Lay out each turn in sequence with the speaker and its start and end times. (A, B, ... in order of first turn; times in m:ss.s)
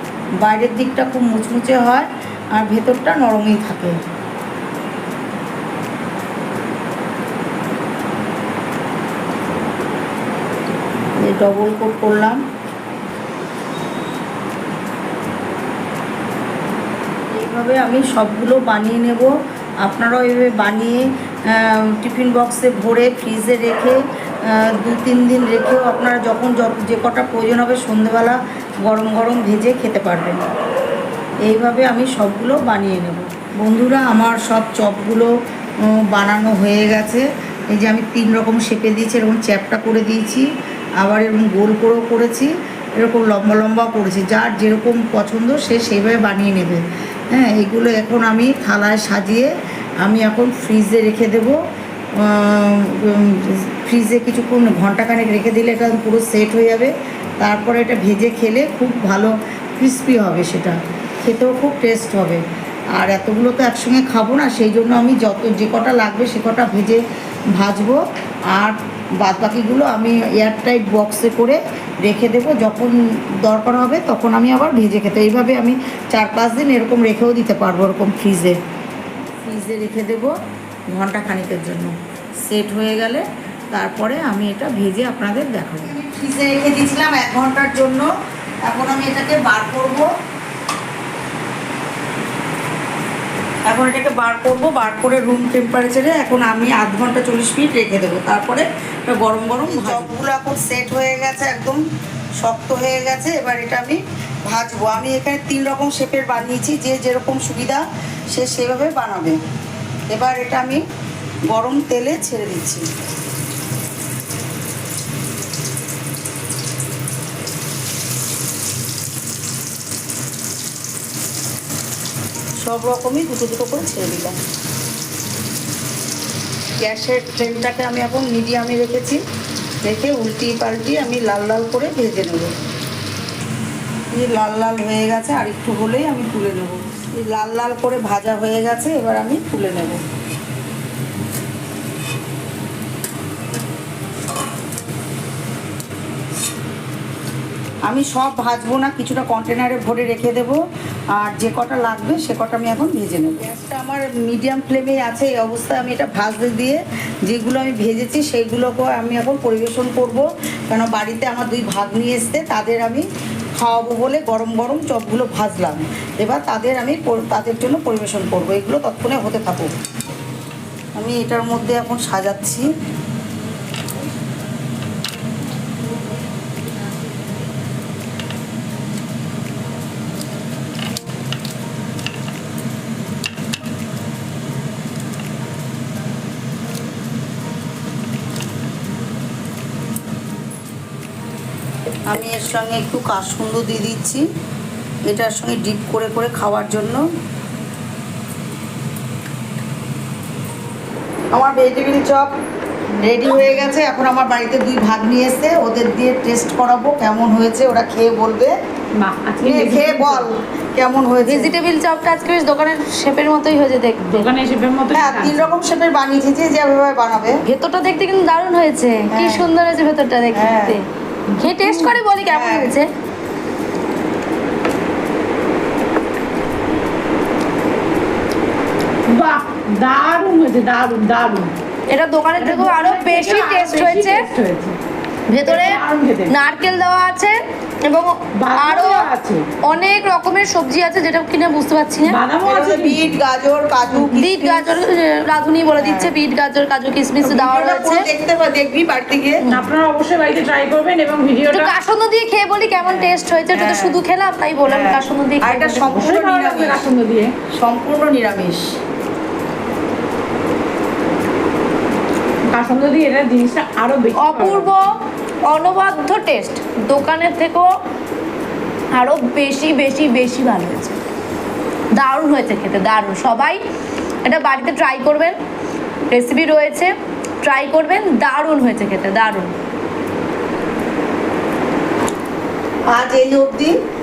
0:00.4-0:04.0 A
0:11.2-0:12.4 A
0:17.3-0:30.4 A
0:31.4-0:35.3 A
0:35.8-0:40.5 A
0:41.0-0:51.6 A
0:52.2-1:07.0 A
1:07.6-1:08.0 A
1:08.5-1:18.6 A
1:19.4-1:20.3 A
1:20.9-1:21.9 A
1:22.4-1:28.1 A
1:28.6-1:30.1 A
1:33.7-1:41.8 A
1:42.4-1:49.4 A
1:50.1-1:50.8 A
1:51.5-1:52.8 A
2:02.6-2:04.4 A
2:06.8-2:09.2 A
2:09.8-2:12.5 A
2:14.1-2:20.0 A
2:27.9-2:30.6 A
2:31.2-2:43.0 A
2:43.6-2:49.7 A
2:51.0-2:52.7 A
3:12.1-3:14.2 A
3:15.1-3:17.0 A
3:21.3-3:22.3 A
3:23.0-3:28.5 A
3:29.0-3:30.3 B
3:29.4-3:31.6 A
3:31.2-3:34.3 C
3:34.0-3:35.6 B
3:34.9-3:37.4 A
3:37.4-3:40.8 C
3:39.1-3:39.5 A
3:40.3-3:40.8 A
3:41.3-3:42.0 B
3:41.4-3:42.9 C
3:42.2-3:42.8 A
3:49.1-3:51.5 B
3:51.9-3:54.3 C
3:52.4-3:54.8 B
3:55.3-3:59.1 C
3:55.4-3:56.4 B
3:58.4-3:59.5 B
3:59.6-4:02.2 C
4:02.0-4:03.2 B
4:02.4-4:04.8 A
4:04.1-4:08.1 C
4:05.8-4:06.1 A
4:07.2-4:09.4 A
4:09.5-4:11.8 B
4:11.5-4:15.9 C
4:12.8-4:14.0 A
4:14.7-4:16.8 A
4:15.8-4:17.3 B
4:17.5-4:18.8 A
4:22.4-4:24.7 B
4:24.1-4:24.9 C
4:25.4-4:27.7 C
4:28.9-4:31.0 C
4:31.9-4:33.6 C
4:34.2-4:35.4 C
4:36.1-4:39.5 C
4:42.9-4:43.7 A